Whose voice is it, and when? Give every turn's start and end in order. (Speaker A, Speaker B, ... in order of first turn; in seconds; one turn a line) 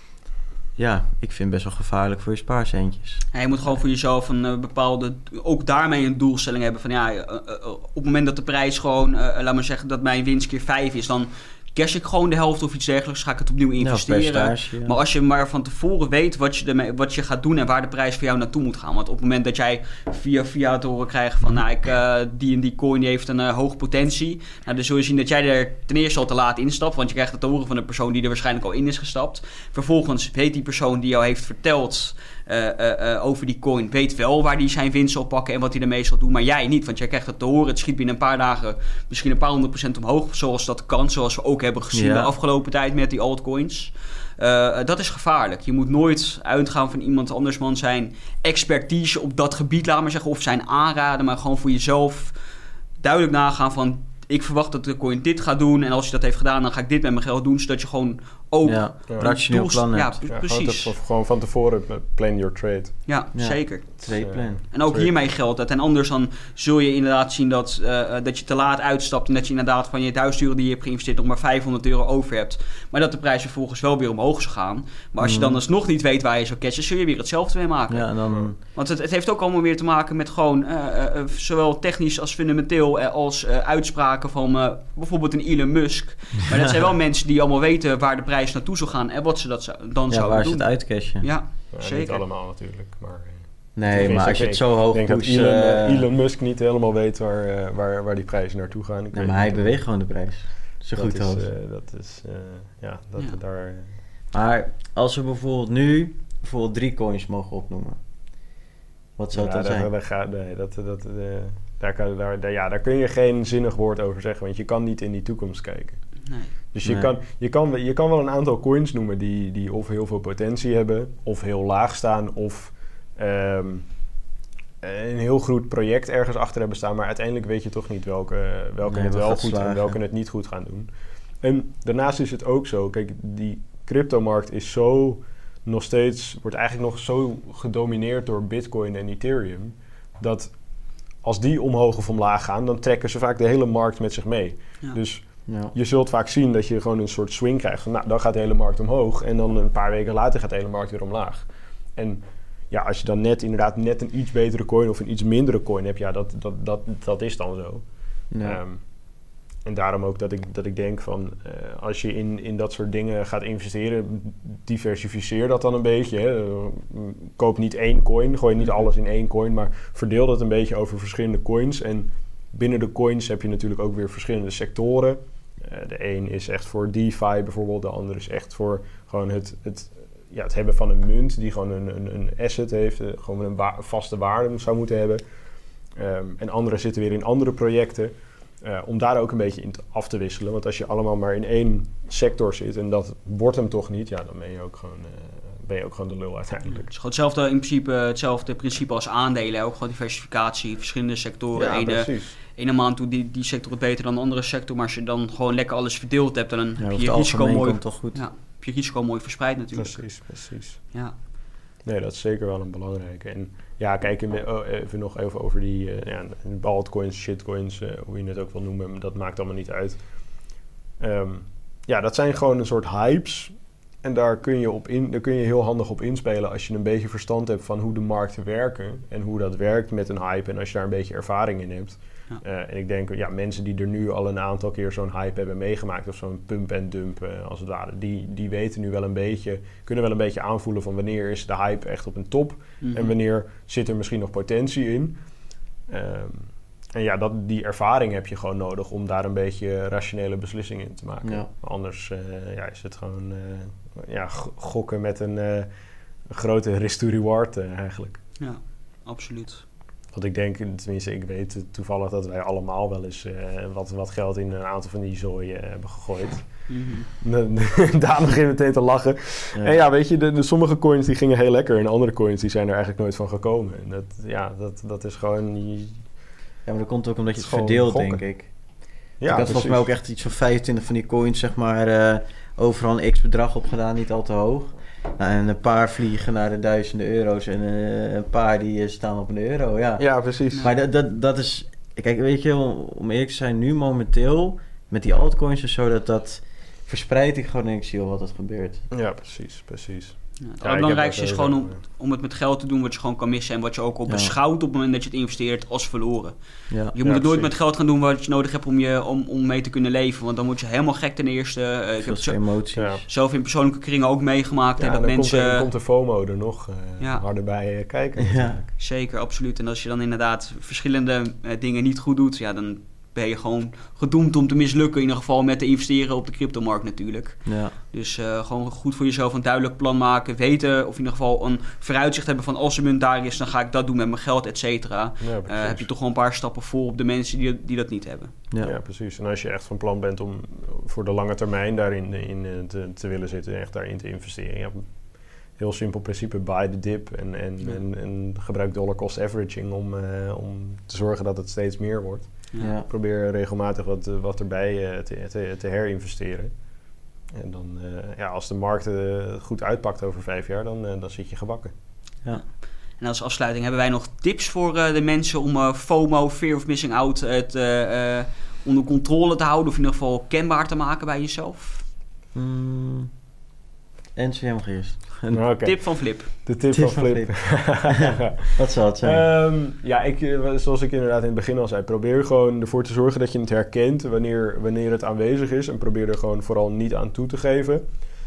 Speaker A: 0.8-3.2
Speaker B: 3.3-52.3
Speaker A: 13.8-15.0
Speaker A: 41.9-42.3
Speaker B: 53.0-60.9
Speaker A: 58.6-60.2
Speaker C: 60.3-63.0
Speaker B: 63.0-64.1
Speaker A: 63.3-64.6
Speaker C: 64.1-65.1
Speaker B: 64.7-92.2
Speaker A: 75.2-75.6
Speaker A: 77.9-78.6
Speaker A: 90.1-91.3
Speaker C: 91.7-99.8
Speaker A: 93.8-96.0
Speaker B: 93.9-94.2
Speaker A: 99.1-101.5
Speaker C: 100.9-104.0
Speaker A: 104.3-108.0
Speaker A: 109.2-109.9
Speaker C: 109.3-116.0
Speaker B: 116.3-116.5
Speaker C: 116.7-123.9
Speaker A: 116.8-117.1
Speaker C: 124.8-130.9
Speaker A: 128.8-130.0
Speaker C: 131.4-140.5
Speaker C: 141.2-157.8
Speaker A: 145.4-145.7
Speaker A: 158.3-158.6
Speaker C: 158.4-158.8
Speaker C: 159.6-185.2
Speaker C: 185.9-196.9
Speaker B: 196.9-210.2
Speaker C: 201.5-202.3
Speaker A: 206.8-208.2
Speaker C: 209.7-210.8
Speaker C: 211.8-220.0
Speaker C: 221.0-245.2
Speaker B: 242.8-243.1
Speaker C: 245.9-255.7
Speaker A: 251.2-251.5
Speaker C: 256.3-258.2
Speaker B: 258.4-259.6
Speaker C: 260.1-266.7
Speaker B: 266.7-267.1
Speaker C: 267.2-276.0
Speaker A: 269.5-269.8
Speaker A: 276.6-278.5
Speaker C: 277.3-278.2
Speaker C: 279.2-279.9
Speaker A: 279.2-298.8
Speaker C: 290.0-290.6
Speaker C: 298.9-301.8
Speaker B: 300.4-306.3
Speaker A: 304.1-304.3
Speaker A: 306.7-306.9
Speaker B: 306.9-312.4
Speaker C: 307.0-307.5
Speaker A: 312.0-313.0
Speaker C: 312.7-313.0
Speaker B: 313.1-315.7
Speaker C: 314.8-318.7
Speaker B: 317.0-317.2
Speaker A: 318.2-318.6
Speaker B: 318.8-338.4
Speaker A: 327.4-327.7
Speaker C: 335.2-335.9
Speaker A: 338.5-338.7
Speaker C: 338.6-356.5
Speaker A: 352.6-352.9
Speaker C: 357.3-361.7
Speaker B: 363.0-371.8
Speaker A: 372.3-373.1
Speaker A: 374.1-375.4
Speaker C: 375.3-387.8
Speaker B: 375.6-376.3
Speaker A: 376.7-379.2